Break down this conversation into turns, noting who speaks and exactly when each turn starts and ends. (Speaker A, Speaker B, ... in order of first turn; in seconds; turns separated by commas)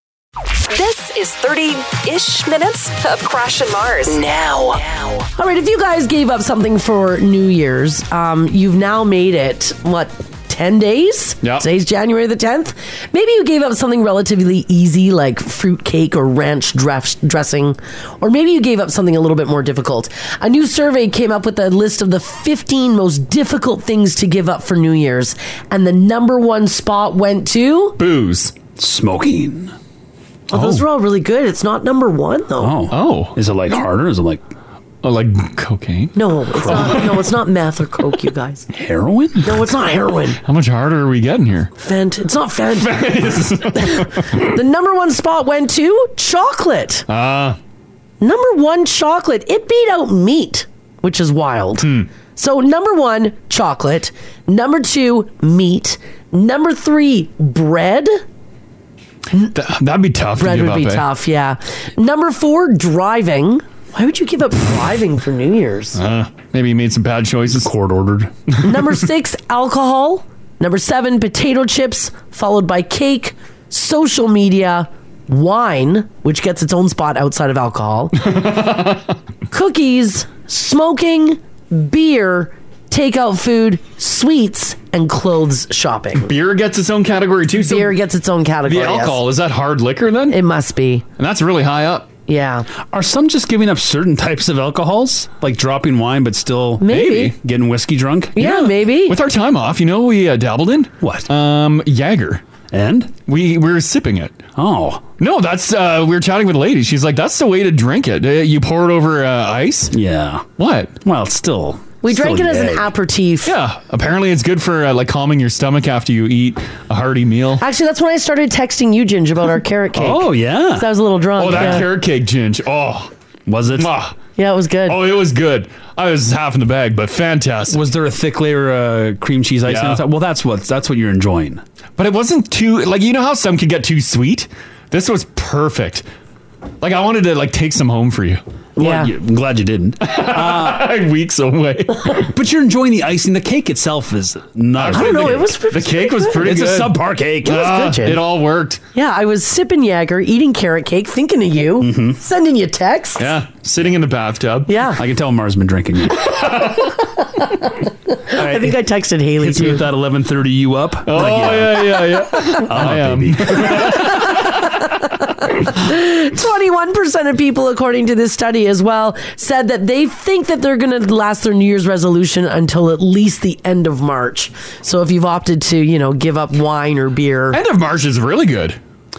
Speaker A: 0.7-4.2, Speaker B: 4.1-28.0, Speaker C: 28.0-28.6, Speaker D: 28.8-29.7, Speaker B: 30.5-32.8, Speaker C: 30.5-30.8, Speaker D: 32.6-34.4, Speaker C: 32.9-33.4, Speaker C: 35.0-37.2, Speaker B: 36.1-38.7, Speaker D: 36.5-37.1, Speaker D: 38.7-39.6, Speaker B: 39.4-40.4, Speaker C: 40.5-41.7, Speaker B: 41.8-43.1, Speaker C: 42.7-44.5, Speaker B: 43.7-47.1, Speaker C: 47.1-47.6, Speaker B: 48.2-58.2, Speaker C: 51.8-52.1, Speaker C: 59.5-61.1, Speaker B: 60.4-66.0, Speaker C: 66.0-67.7, Speaker D: 67.5-68.3, Speaker C: 68.5-69.0, Speaker B: 68.6-78.3, Speaker C: 78.2-79.2, Speaker B: 79.5-86.3, Speaker C: 86.2-88.0, Speaker B: 87.6-89.2, Speaker C: 88.7-90.4, Speaker B: 90.3-91.0, Speaker C: 91.2-92.1, Speaker B: 92.3-92.7, Speaker D: 92.9-98.4, Speaker B: 96.8-97.3, Speaker C: 96.9-97.4, Speaker B: 98.4-99.2, Speaker C: 98.4-102.4, Speaker D: 101.0-101.3, Speaker D: 102.7-103.1, Speaker C: 103.3-104.5, Speaker D: 104.6-105.0, Speaker C: 105.2-109.9, Speaker D: 109.9-110.5, Speaker C: 110.6-111.0, Speaker D: 111.0-112.9, Speaker B: 112.0-113.5, Speaker C: 113.5-117.6, Speaker B: 117.6-121.9, Speaker D: 119.9-120.9, Speaker C: 121.4-123.1, Speaker D: 121.5-121.9, Speaker D: 123.5-123.9, Speaker C: 123.8-124.2, Speaker B: 124.4-125.0, Speaker C: 124.9-127.8, Speaker D: 127.7-131.6, Speaker C: 129.7-130.0, Speaker C: 132.0-136.1, Speaker C: 136.8-138.4, Speaker B: 138.8-139.1, Speaker D: 138.8-140.9, Speaker C: 140.0-142.3, Speaker D: 142.1-145.6, Speaker C: 144.8-148.8, Speaker B: 144.9-146.4, Speaker D: 146.3-147.8, Speaker B: 147.5-148.2, Speaker B: 148.9-153.3, Speaker D: 151.8-152.2, Speaker C: 153.2-154.9, Speaker B: 154.7-155.0, Speaker D: 154.9-156.4, Speaker C: 156.2-157.0, Speaker B: 158.2-159.8, Speaker D: 158.3-158.8, Speaker D: 159.4-163.9, Speaker C: 161.1-164.8, Speaker B: 163.6-177.6, Speaker C: 177.5-178.8